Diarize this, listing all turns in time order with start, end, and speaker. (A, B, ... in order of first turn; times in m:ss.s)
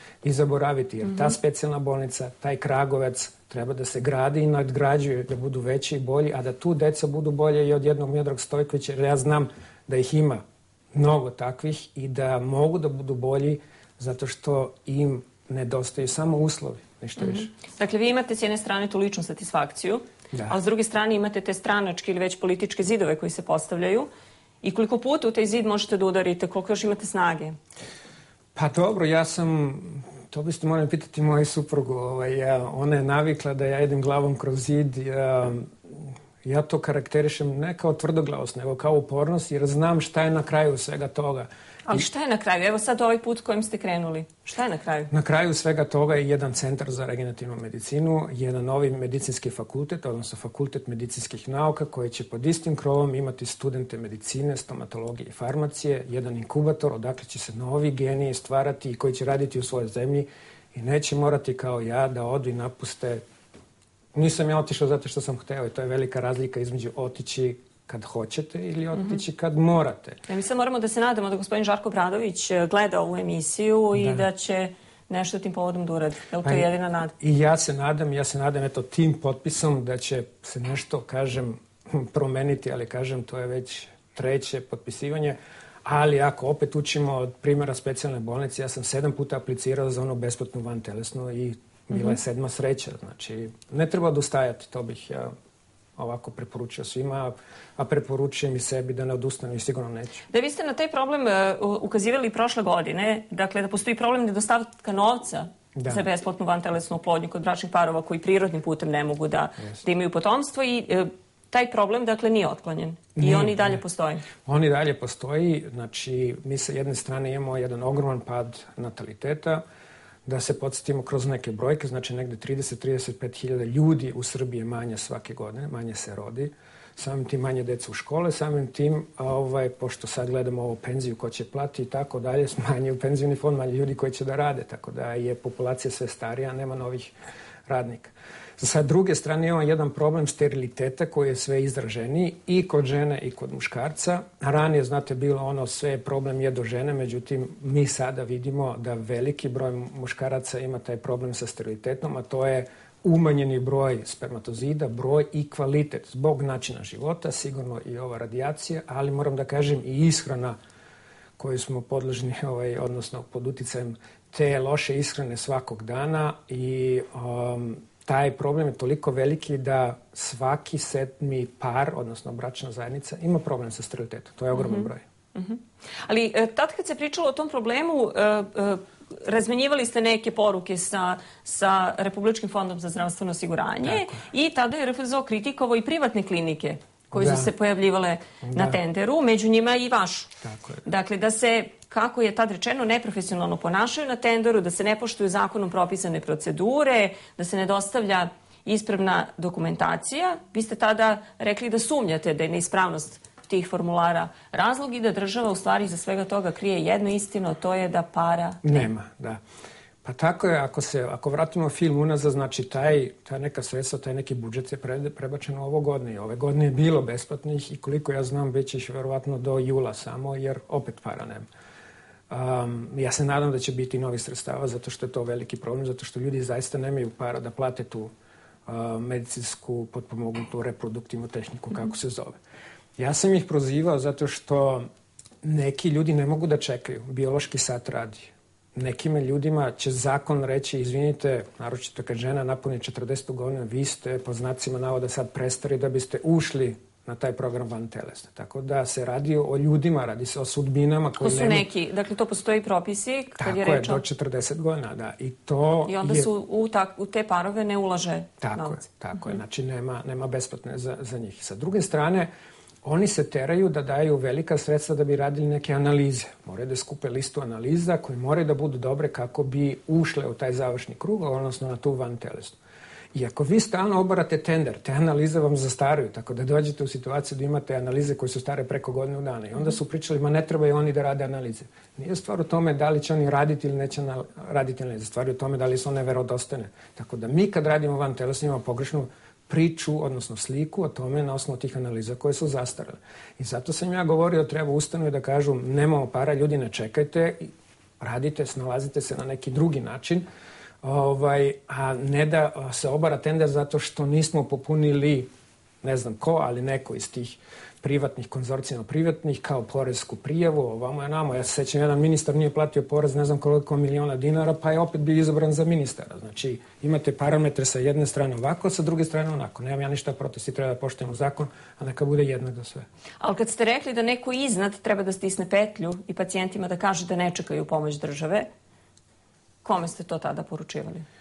0:00.2-0:10.4 A
0:10.9-0:17.5 A
0:17.2-0:24.1 B
0:24.6-0:27.6 B
0:28.5-0:42.1 A
0:41.9-0:45.1 B
0:45.1-1:03.2 A
1:04.1-1:10.2 A
1:10.3-1:17.1 B
1:13.9-1:14.2 A
1:16.4-1:16.7 A
1:17.2-1:35.3 A
1:36.0-1:40.2 A
1:40.3-1:54.2 B
1:45.8-1:46.0 A
1:53.2-1:53.8 A
1:54.4-1:59.6 A
2:00.2-2:17.1 A
2:17.6-2:40.6 A
2:41.4-2:55.0 A
2:54.5-3:28.9 B
3:03.8-3:04.2 A
3:07.1-3:07.5 A
3:08.4-3:08.8 A
3:10.4-3:10.8 A
3:28.6-3:29.4 A
3:30.0-3:41.4 A
3:42.3-3:48.1 A
3:48.6-3:52.4 A
3:53.0-3:54.9 A
3:55.4-4:11.6 A
4:11.2-4:14.0 B
4:13.4-4:16.3 A
4:15.8-4:19.4 B
4:18.4-4:22.3 A
4:22.8-4:32.6 A
4:33.1-5:00.2 A
5:00.8-5:05.3 A
5:05.8-5:22.8 A
5:23.2-5:28.4 B
5:29.6-5:31.0 B